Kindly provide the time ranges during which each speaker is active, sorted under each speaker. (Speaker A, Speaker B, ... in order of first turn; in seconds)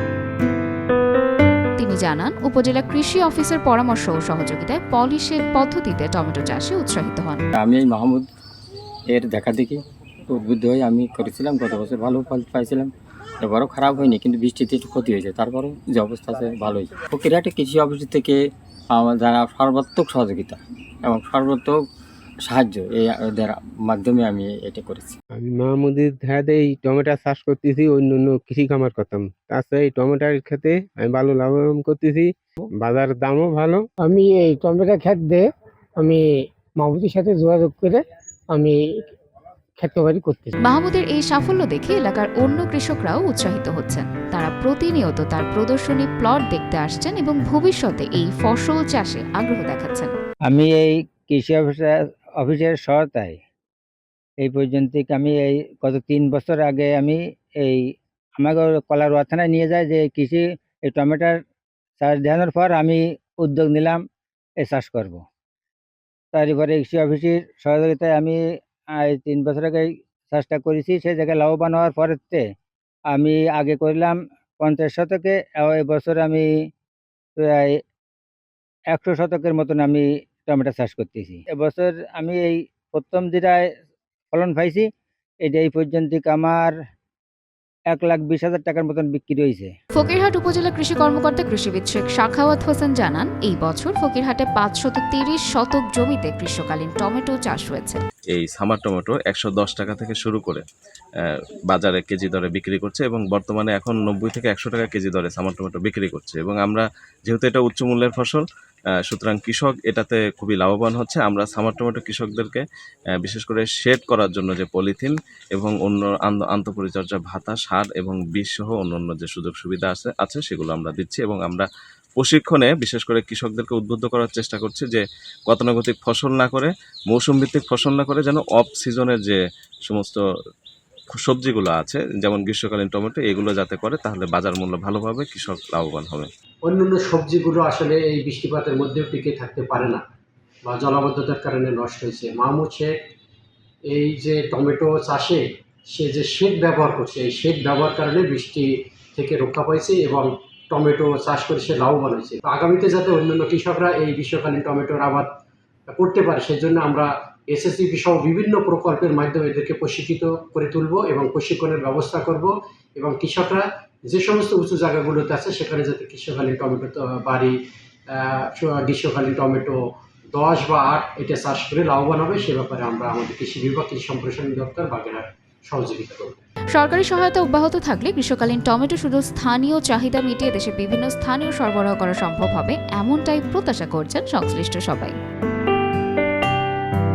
Speaker A: 1.8-7.4, 40.6-50.1, 90.0-98.0, 176.7-185.2
Speaker B: 7.6-8.3, 9.1-12.9, 13.4-18.4, 18.9-21.8, 22.5-25.2
Speaker C: 25.4-33.8
Speaker D: 34.0-39.0, 39.8-40.5
Speaker E: 50.5-53.4, 54.4-57.8, 58.4-61.4, 62.0-64.0, 64.6-65.2, 66.3-68.4, 69.0-72.4, 73.1-76.5, 77.4-77.8, 78.9-83.7, 84.3-84.9, 85.5-86.7, 87.9-89.7
Speaker F: 98.3-100.6, 101.2-108.5, 109.1-112.6, 113.2-121.7, 122.2-130.2, 131.1-136.3
Speaker G: 136.7-140.0, 140.7-142.8, 144.0-145.3, 145.9-148.6, 149.2-155.2, 155.9-162.5, 163.0-163.6, 164.1-167.5, 168.6-169.7, 170.4-176.3